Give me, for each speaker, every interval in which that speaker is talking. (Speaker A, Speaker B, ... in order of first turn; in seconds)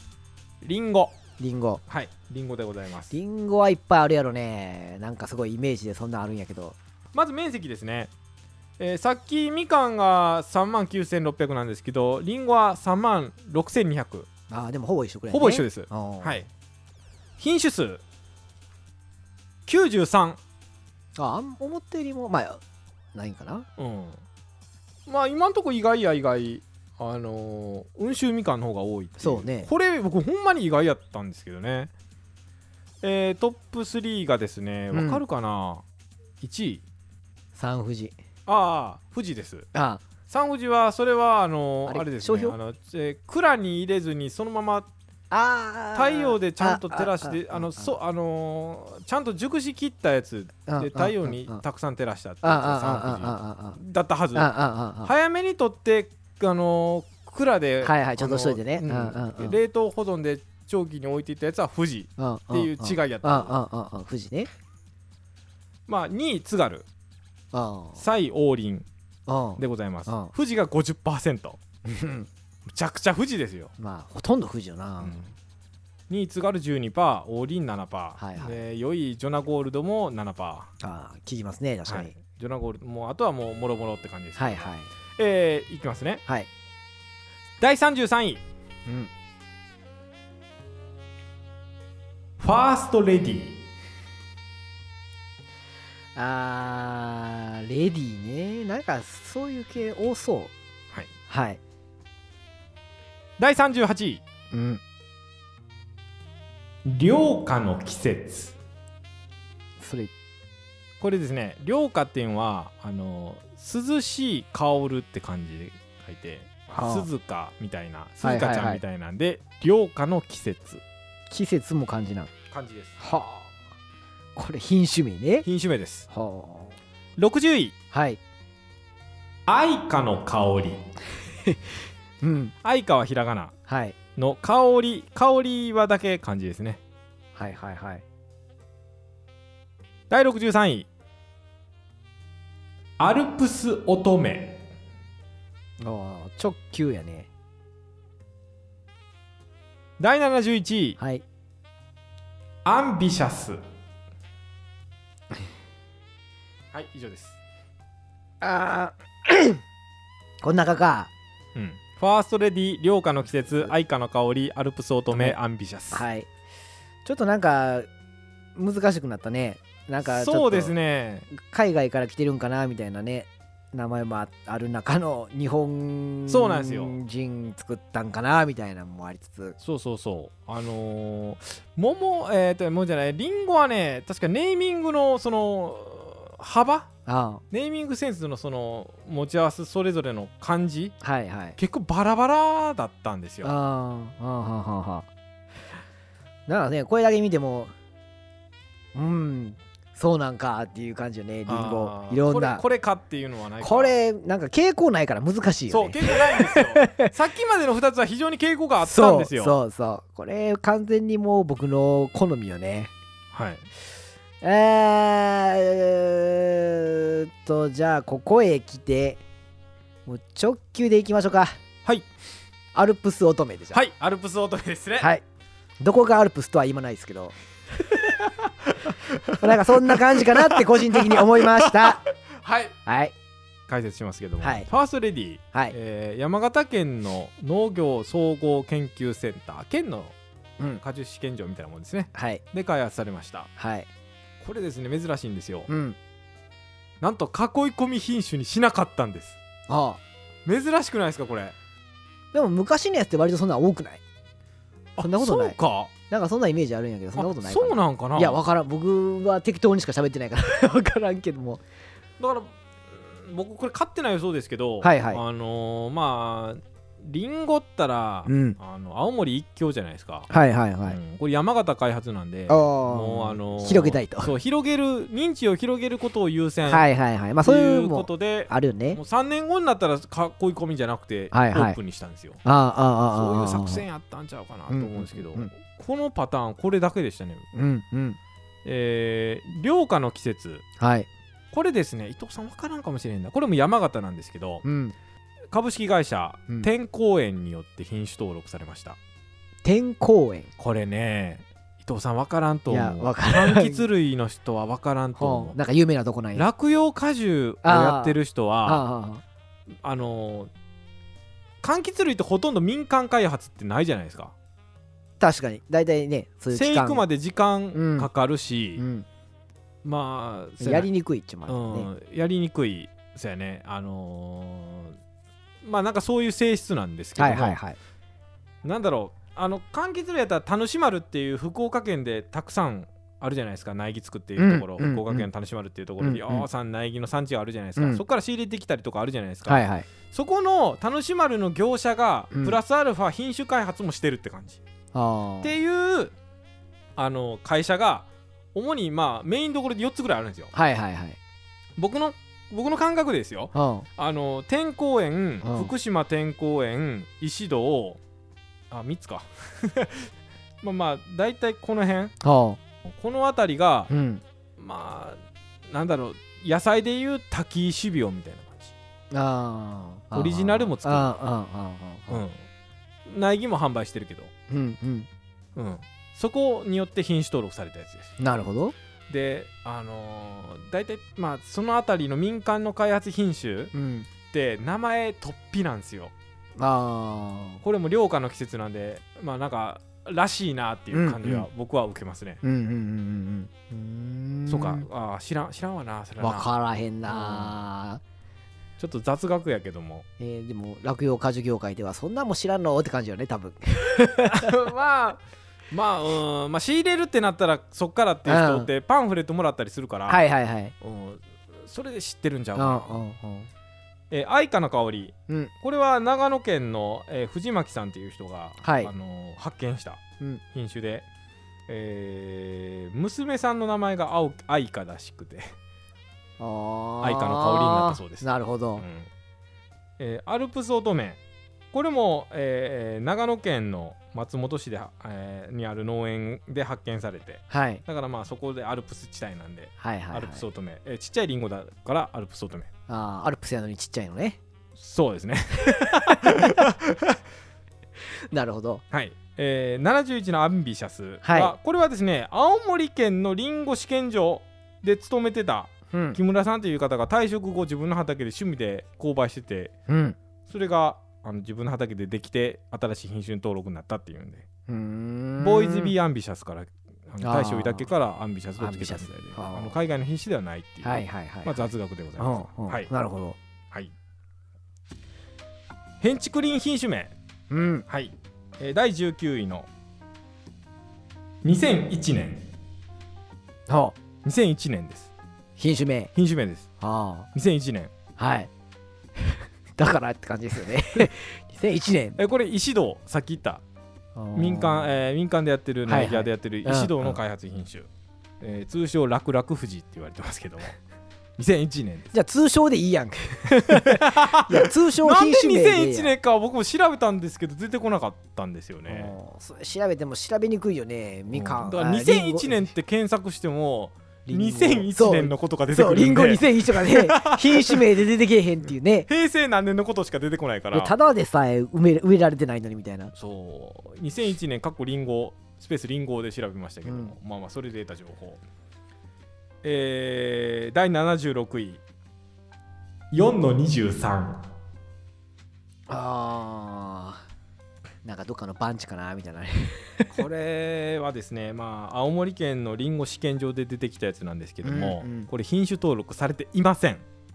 Speaker A: 0.6-1.2, 1.9-3.1, 7.1-8.1, 8.8-14.3, 15.3-16.5, 17.4-18.0, 19.7-20.4, 23.8-24.2, 25.1-31.9, 33.0-35.8, 36.4-36.8, 38.5-39.7, 40.3-44.9, 45.9-54.5, 55.0-63.5, 65.9-66.9, 68.0-68.9, 69.6-71.6, 72.7-73.7, 75.0-75.3, 76.1-80.7, 81.9-86.2, 87.6-88.4, 92.4-93.6, 103.4-104.2, 106.8-108.5, 111.0-120.8, 122.5-123.2, 125.4-126.1, 127.2-127.8, 129.5-130.8, 132.6-133.6, 134.2-136.8, 140.1-140.9, 143.0-144.6, 150.0-151.0, 152.7-153.6, 156.7-157.4, 161.6-166.1, 170.0-171.3, 176.3-177.0, 179.6-186.9, 187.5-190.9, 191.6-193.5, 201.5-203.9, 205.7-209.6, 213.3-213.7, 223.7-225.1, 227.9-232.8, 233.7-240.2, 240.8-243.5, 244.4-245.7, 247.0-249.4, 250.4-251.6, 255.0-255.9, 257.2-258.4, 262.2-270.3, 270.9-276.9, 277.4-282.4, 283.1-287.5, 288.6-290.6, 291.5-294.6, 295.5-299.0, 300.6-305.6, 306.4-308.8, 309.8-310.5, 311.6-314.4, 316.5-318.8, 319.8-320.9, 321.5-325.0, 325.6-327.6, 328.6-344.6, 345.4-346.1, 347.0-350.5, 351.8-358.0, 358.7-360.1, 360.6-362.1, 362.9-363.9, 364.6-368.7, 370.1-371.1, 372.1-372.4, 373.1-374.3, 375.6-378.1, 379.1-383.7, 384.3-386.1, 387.6-392.4, 394.5-396.5, 397.1-397.6, 398.8-400.1, 404.3-410.2, 410.8-413.0, 414.1-420.0, 420.5-421.1, 421.7-425.6, 427.0-428.3, 428.8-429.1, 430.0-431.2, 431.7-442.7, 444.8-447.2, 448.9-459.7, 460.5-464.5, 465.4-472.9, 476.0-477.1, 477.9-479.7, 481.4-482.5, 484.2-485.1, 486.1-486.7, 487.3-487.9, 492.2-493.6, 494.3-497.9, 498.4-500.8, 501.4-502.1, 503.5-509.1, 511.3-517.8, 519.1-520.9, 523.1-528.4, 529.6-531.8, 533.1-534.4, 540.1-547.0
Speaker B: 1.4-1.8, 3.1-6.8, 14.5-16.4, 21.2-22.6, 23.1-23.7, 29.2-29.7, 34.9-35.2, 37.5-38.2, 39.7-40.0, 41.9-42.6, 45.3-47.9, 50.7-51.6, 52.4-53.8, 54.4-55.1, 57.8-59.6, 62.2-64.5, 67.5-68.0, 69.3-70.3, 71.8-72.3, 73.8-75.3, 78.2-78.6, 80.8-82.1, 84.4-84.9, 88.9-89.1, 96.2-100.5, 101.3-101.6, 104.5-104.8, 109.8-110.1, 116.7-117.1, 118.2-118.8, 121.3-122.3, 123.0-123.5, 124.4-125.5, 126.1-126.8, 127.9-128.2, 132.2-132.5, 133.7-134.0, 137.3-138.0, 145.8-147.3, 151.0-151.2, 158.4-159.6, 160.4-161.1, 165.1-165.4, 165.9-166.3, 167.1-167.9, 168.6-170.7, 171.3-179.6, 187.1-187.4, 191.0-191.6, 193.4-195.1, 196.5-197.7, 198.9-202.6, 203.6-207.1, 208.8-212.9, 214.4-219.2, 220.1-221.6, 222.7-223.8, 225.8-227.3, 229.3-232.0, 232.9-233.1, 234.4-234.7, 242.1-242.4, 243.6-243.9, 245.7-246.0, 249.7-250.0, 252.3-254.0, 255.0-261.6, 264.8-265.2, 268.3-268.6, 270.3-271.0, 272.5-274.3, 276.7-279.0, 281.3-281.8, 282.4-283.9, 284.7-285.5, 287.5-288.2, 290.8-291.1, 294.6-294.9, 299.6-300.5, 302.7-303.9, 305.2-306.5, 307.6-309.2, 315.2-317.0, 317.7-318.1, 318.8-319.1, 320.6-321.9, 327.2-327.8, 334.4-335.3, 336.0-336.5, 337.8-338.0, 339.5-339.9, 342.3-342.6, 344.9-345.5, 350.5-351.2, 353.5-353.9, 355.4-355.7, 362.2-362.6, 363.9-364.2, 369.1-372.2, 374.5-375.1, 378.2-378.8, 383.7-384.1, 386.6-387.6, 390.9-391.5, 392.4-394.9, 396.2-398.0, 400.2-404.6, 408.3-408.7, 410.1-410.8, 412.6-413.5, 418.6-418.9, 426.4-428.9, 437.5-437.8, 439.8-440.4, 442.9-444.4, 445.6-446.7, 448.3-448.8, 451.2-451.6, 455.9-456.2, 459.9-460.2, 464.7-465.9, 467.2-467.9, 468.6-469.8, 470.8-471.6, 472.2-473.4, 477.5-477.9, 483.7-484.0, 485.6-486.1, 486.8-487.3, 488.2-488.5, 489.2-492.2, 494.2-494.9, 495.9-497.2, 502.1-506.1, 508.9-512.7, 514.3-519.1, 520.7-523.1, 526.9-527.1, 535.9-537.2, 538.0-540.2, 544.6-545.3